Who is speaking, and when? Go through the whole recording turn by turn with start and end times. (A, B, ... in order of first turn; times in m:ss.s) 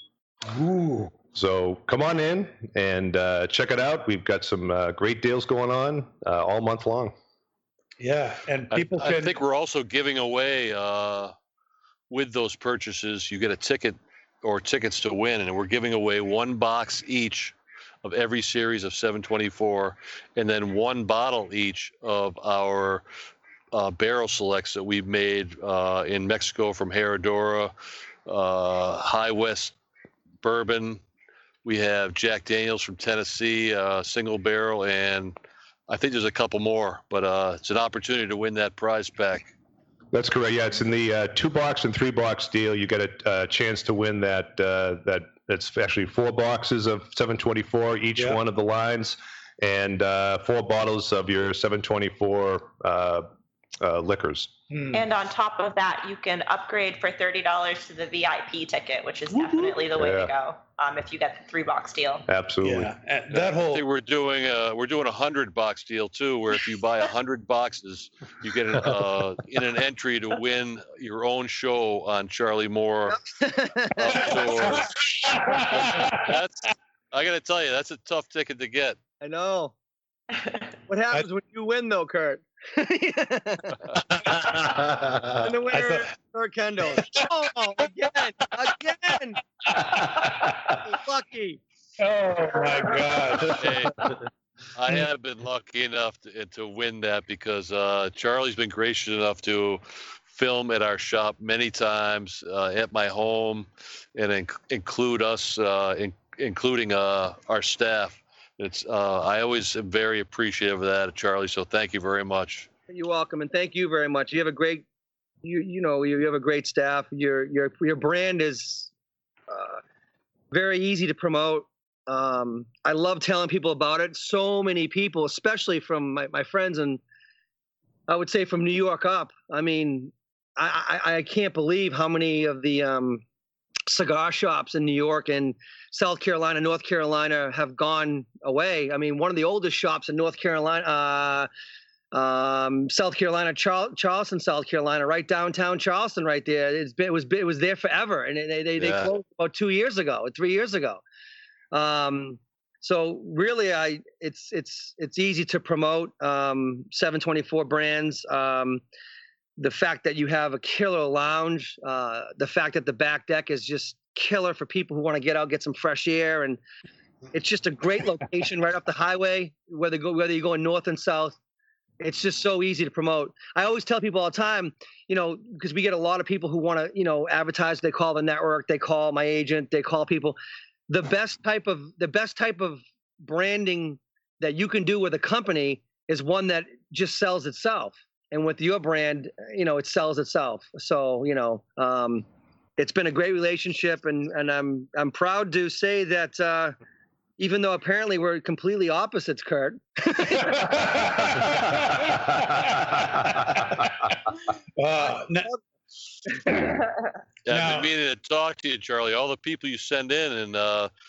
0:00.4-0:01.2 A
0:01.4-0:07.1 B
0:08.0-0:09.4 A
0:08.7-0:11.3 C
0:12.1-0:23.0 C
0:23.7-0:27.7 C
0:28.3-0:29.8 C
0:30.4-0:31.0 C
0:31.6-0:35.4 C
0:35.9-0:39.5 C
0:40.1-0:53.3 B
0:53.8-0:54.5 B
0:54.7-0:55.0 A
0:54.9-1:02.3 D
0:59.9-1:00.3 B
1:02.3-1:02.9 B
1:02.6-1:03.8 A
1:03.3-1:13.2 C
1:13.1-1:14.8 E
1:14.0-1:19.0 C
1:14.3-1:16.4 A
1:19.2-1:19.8 E
1:20.9-1:23.8 E
1:25.3-1:29.4 E
1:25.7-1:26.1 A
1:27.0-1:27.3 A
1:29.7-1:30.8 A
1:30.8-1:31.6 E
1:32.0-1:34.1 A
1:33.6-1:34.1 C
1:34.8-1:52.7 C
1:52.9-1:54.8 E
1:55.4-1:58.9 E
1:59.5-1:59.8 E
2:00.5-2:07.0 E
2:08.1-2:13.2 E
2:13.9-2:21.5 E
2:22.1-2:31.0 E
2:28.8-2:29.1 C
2:31.7-2:38.8 E
2:39.6-2:46.6 E
2:47.3-2:51.4 E
2:52.0-3:00.4 E
3:00.9-3:12.3 E
3:12.8-3:16.8 E
3:17.4-3:21.0 E
3:20.4-3:23.9 A
3:24.8-3:25.5 A
3:27.5-3:30.9 C
3:27.5-3:27.9 A